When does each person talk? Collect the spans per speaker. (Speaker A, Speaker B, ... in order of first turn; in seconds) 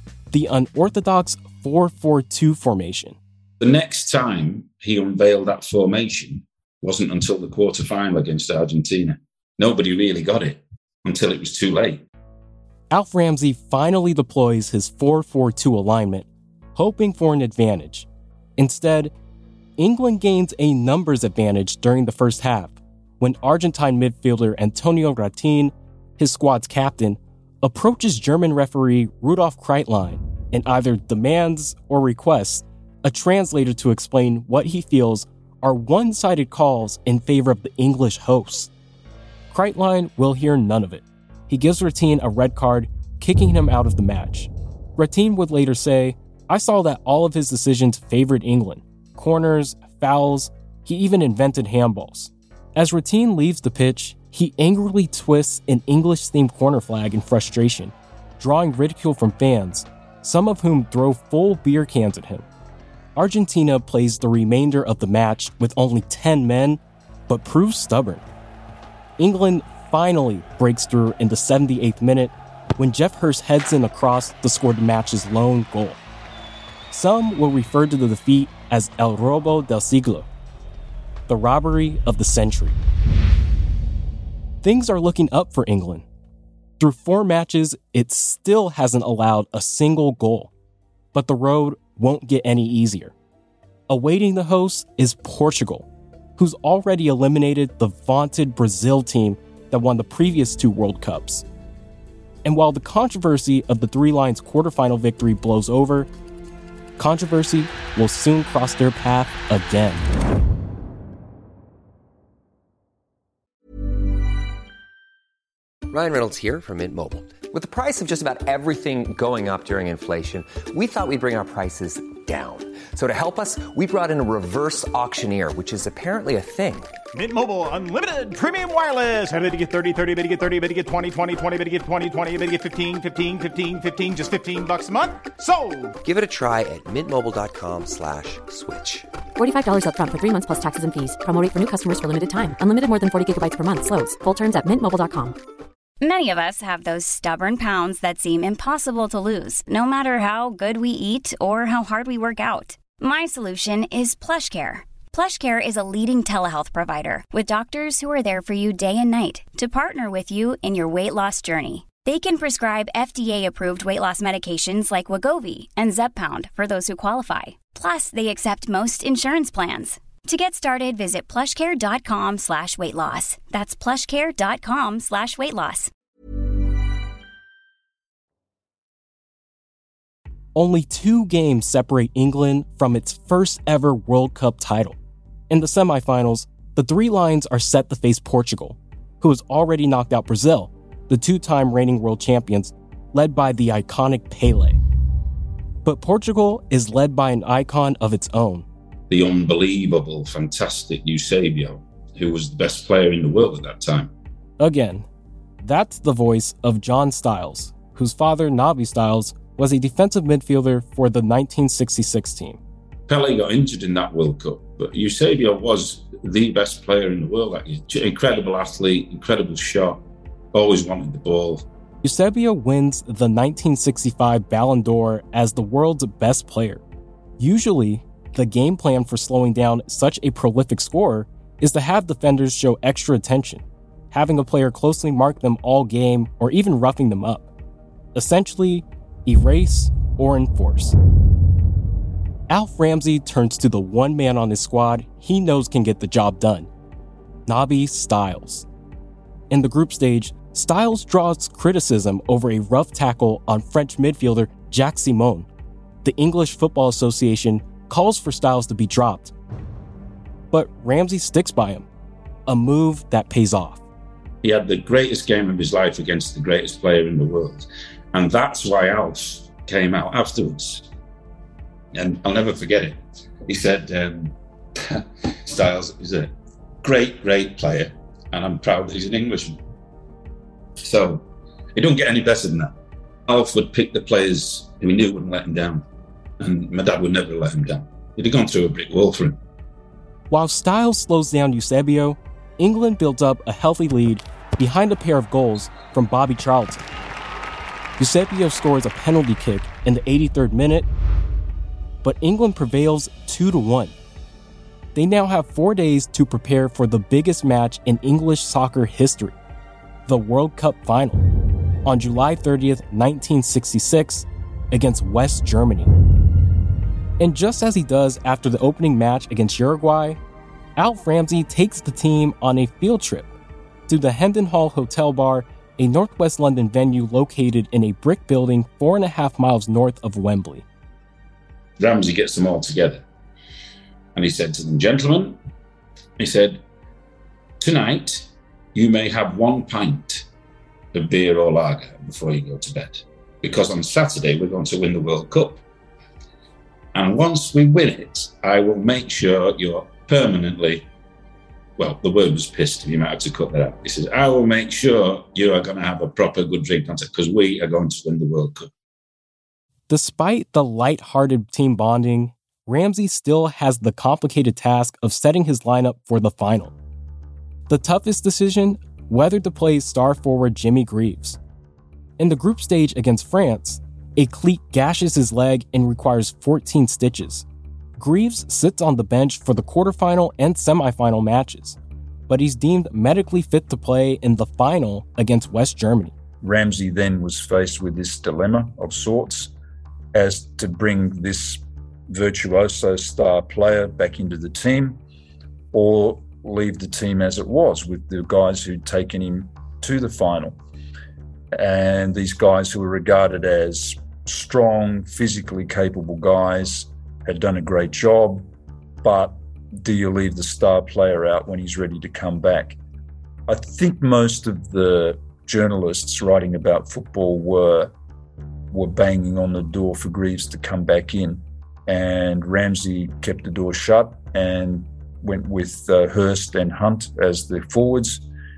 Speaker A: 0.3-3.2, 12.9-18.1, 18.6-19.1, 19.8-38.7, 39.5-62.5, 63.2-68.2, 69.2-76.0, 76.9-80.3, 81.3-82.8, 84.6-86.0, 86.8-90.5, 91.1-93.1, 93.9-101.5, 102.4-106.1, 107.0-110.1, 180.6-185.0, 185.5-194.8, 195.8-198.7, 204.6-205.1, 205.6-212.6, 222.0-226.8, 227.4-237.5, 238.2-241.0, 242.5-246.7, 247.5-248.7, 249.5-255.5, 256.0-259.3, 260.5-261.9, 262.5-263.8, 290.3-296.8, 298.0-300.9, 302.0-303.9, 304.9-309.4, 310.1-311.2, 311.9-315.9, 317.2-320.2, 320.8-323.3, 323.9-330.6, 359.9-366.8, 367.7-371.4, 372.2-377.4, 378.0-381.8, 382.3-386.1
Speaker B: 3.6-12.0, 199.1-204.1, 213.1-221.7, 264.4-270.9, 271.9-279.6, 280.8-282.8, 283.3-285.9, 286.4-289.4, 331.8-333.1, 334.1-335.4, 336.2-336.6, 337.6-340.2, 340.9-345.6, 346.9-350.9, 351.8-358.7
Speaker C: 115.9-126.9, 136.0-139.1
Speaker D: 127.1-136.0
Speaker E: 139.4-145.4
Speaker F: 146.0-175.9
Speaker G: 386.4-389.5, 390.1-395.0, 395.7-400.6, 401.5-408.5, 409.0-412.8, 413.5-417.9, 418.7-428.3